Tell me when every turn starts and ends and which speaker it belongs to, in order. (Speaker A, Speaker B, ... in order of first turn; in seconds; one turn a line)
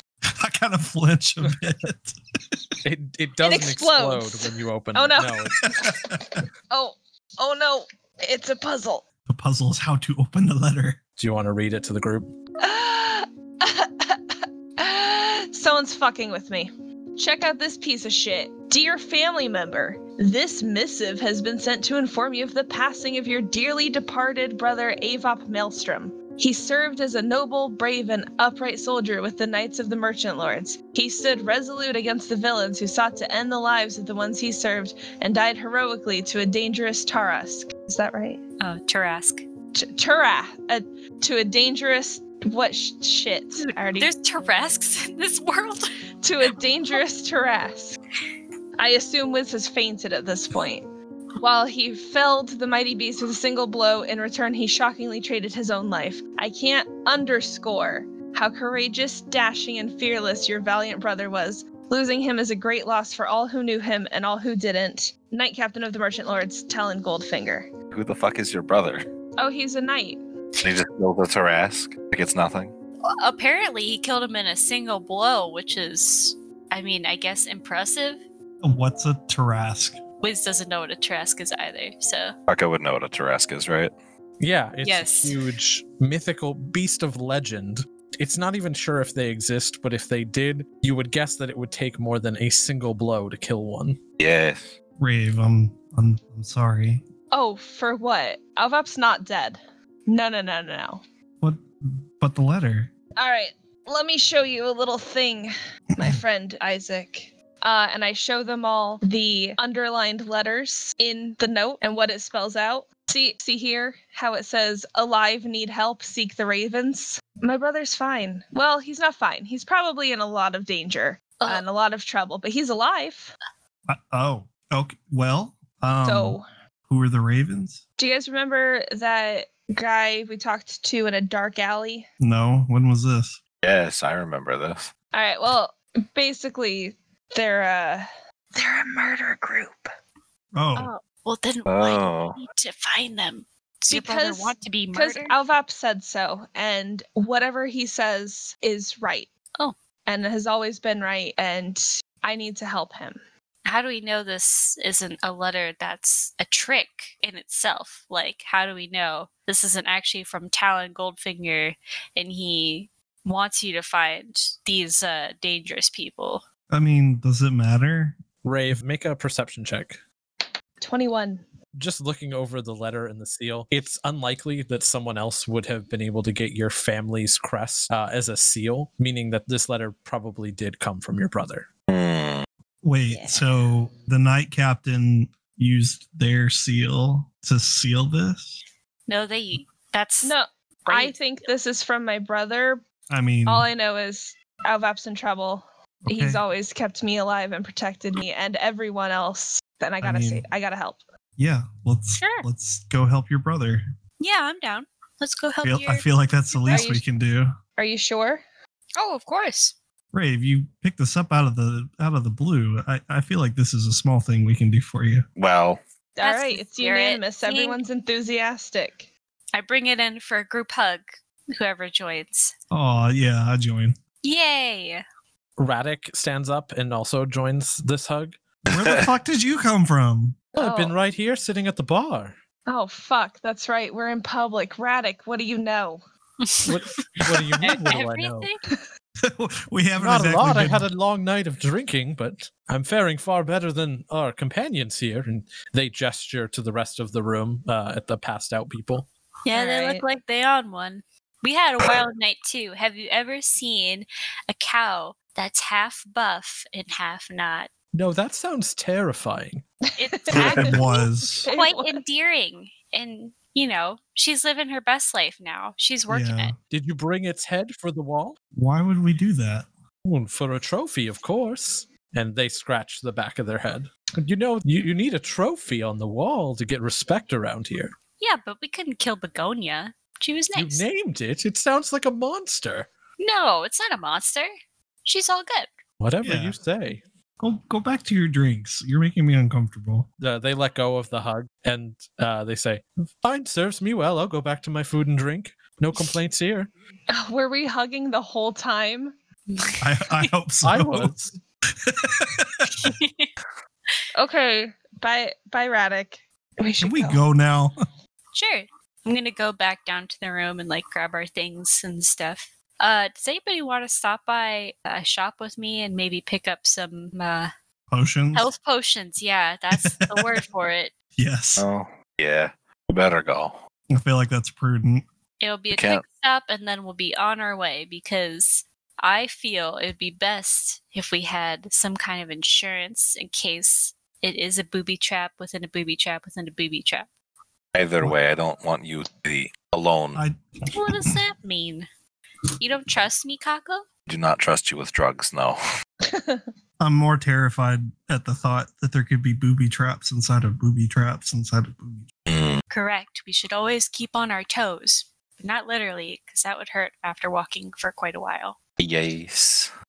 Speaker A: 0.4-2.6
Speaker B: 2.8-5.6
Speaker C: 3.4-9.0
Speaker A: 5.6-6.4
Speaker A: 9.3-11.0
Speaker B: 11.2-12.3
Speaker C: 12.6-38.4
Speaker D: 38.6-39.4
Speaker C: 39.8-44.1
Speaker D: 43.7-45.9
Speaker C: 46.2-48.0
Speaker C: 48.8-50.9
Speaker C: 51.4-67.7
Speaker E: 67.9-69.0
Speaker C: 69.4-70.2
Speaker E: 70.6-72.7
Speaker D: 73.2-78.2
Speaker A: 78.6-80.0
Speaker D: 80.2-82.3
Speaker E: 82.5-83.9
Speaker B: 84.4-94.0
Speaker D: 84.8-85.4
Speaker E: 94.2-94.8
Speaker A: 95.0-97.0
Speaker C: 97.3-101.0
Speaker A: 101.4-102.9
Speaker C: 103.2-123.3
Speaker A: 123.9-126.4
Speaker C: 126.0-126.4
Speaker A: 126.9-127.8
Speaker C: 128.0-132.1
Speaker A: 132.2-133.4
Speaker E: 133.6-134.9
Speaker C: 135.1-139.9
Speaker A: 140.5-140.9
Speaker D: 140.8-145.4
Speaker E: 141.7-142.4
Speaker C: 143.9-149.3
Speaker C: 150.1-153.2
Speaker D: 153.7-166.4
Speaker A: 166.7-168.2
Speaker B: 168.4-170.0
Speaker C: 170.8-171.4
Speaker B: 171.8-181.7
Speaker E: 181.9-182.4
Speaker A: 182.8-188.6
Speaker C: 183.1-183.4
Speaker D: 189.1-190.3
Speaker C: 190.2-192.8
Speaker D: 190.9-191.5
Speaker A: 193.1-193.7
Speaker C: 193.4-201.0
Speaker A: 196.1-196.4
Speaker A: 200.0-200.4
Speaker A: 201.4-203.8
Speaker D: 202.2-202.4
Speaker D: 204.2-207.0
Speaker A: 205.6-207.5
Speaker C: 206.7-207.0
Speaker C: 207.8-208.4
Speaker D: 209.0-209.8
Speaker A: 210.1-215.2
Speaker E: 215.4-215.8
Speaker C: 216.2-219.1
Speaker D: 216.2-217.8
Speaker D: 219.5-222.5
Speaker A: 222.7-223.9
Speaker D: 224.2-225.0
Speaker B: 225.6-228.4
Speaker A: 228.7-230.4
Speaker C: 230.6-230.9
Speaker B: 230.6-232.4
Speaker C: 232.7-236.0
Speaker D: 236.4-237.0
Speaker B: 236.6-238.5
Speaker D: 237.6-238.6
Speaker A: 239.2-240.9
Speaker B: 240.0-249.1
Speaker D: 249.5-257.7
Speaker C: 249.5-250.0
Speaker B: 257.9-259.6
Speaker C: 259.9-262.0
Speaker D: 260.0-266.6
Speaker A: 260.3-261.5
Speaker E: 260.4-260.6
Speaker A: 266.1-266.6
Speaker B: 266.7-268.4
Speaker A: 268.5-269.7
Speaker B: 270.1-277.9
Speaker D: 278.2-280.8
Speaker B: 280.6-282.9
Speaker D: 283.2-284.5
Speaker D: 285.1-285.7
Speaker B: 286.0-287.0
Speaker A: 286.2-286.6
Speaker A: 287.4-290.1
Speaker B: 290.2-296.7
Speaker C: 297.1-299.1
Speaker D: 299.5-300.3
Speaker A: 299.8-302.9
Speaker B: 300.6-301.2
Speaker D: 302.8-303.3
Speaker C: 304.1-307.2
Speaker A: 306.8-307.7
Speaker D: 308.3-317.5
Speaker A: 317.9-318.5
Speaker D: 318.3-320.9
Speaker A: 319.7-320.4
Speaker A: 321.2-321.6
Speaker E: 321.6-323.6
Speaker A: 323.9-325.0
Speaker D: 325.4-337.1
Speaker E: 325.8-326.0
Speaker E: 337.7-340.2
Speaker D: 340.7-341.9
Speaker D: 342.6-343.9
Speaker E: 344.1-345.6
Speaker C: 346.0-346.4
Speaker A: 346.8-352.0
Speaker E: 352.3-352.6
Speaker D: 352.7-358.6
Speaker E: 358.8-359.7